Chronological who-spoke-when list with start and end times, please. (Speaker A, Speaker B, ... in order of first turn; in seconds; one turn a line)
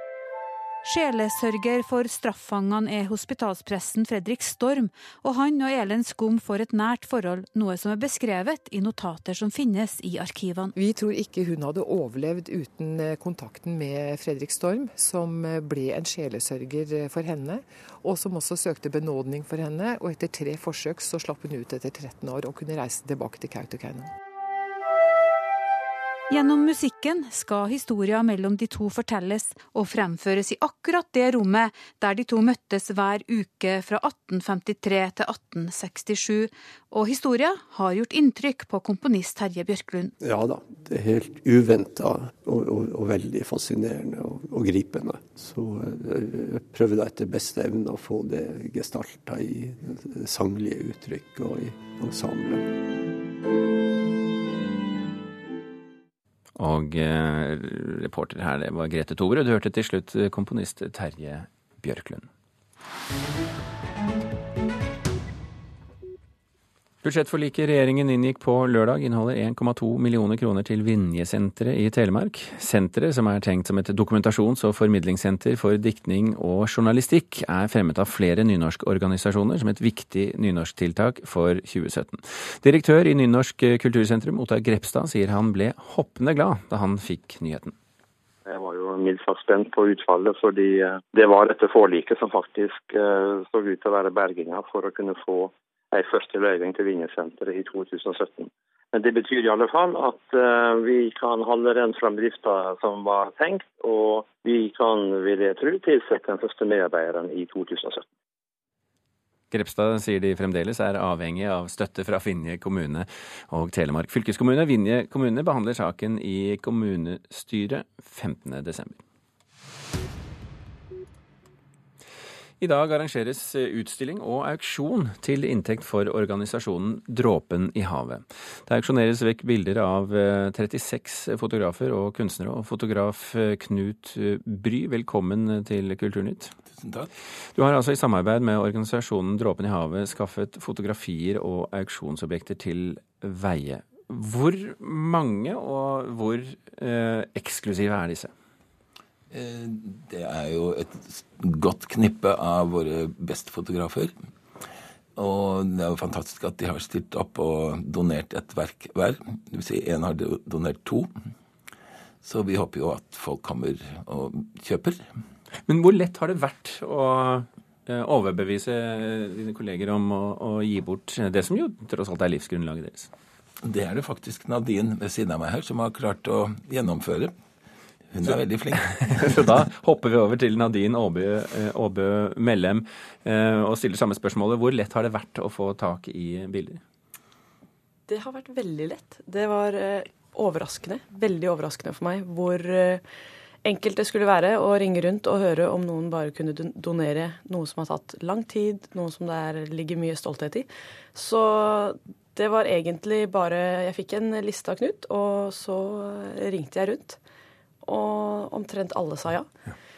Speaker A: 0.8-10.7
Speaker B: 10.8-24.1
Speaker A: 26.3-40.1
Speaker C: 40.2-52.7
Speaker D: 56.6-62.3
Speaker D: 67.0-87.8
Speaker E: 88.5-108.1
Speaker D: 109.5-119.0
Speaker D: 122.6-136.5
Speaker F: 136.7-137.1
Speaker D: 137.6-148.3
Speaker F: 149.3-154.1
Speaker F: 155.2-161.1
Speaker F: 162.2-165.0
Speaker D: 165.7-173.1
Speaker F: 173.6-177.3
Speaker F: 178.1-179.5
Speaker D: 179.0-186.8
Speaker G: 188.1-193.0
Speaker G: 193.7-207.2
Speaker G: 207.8-209.5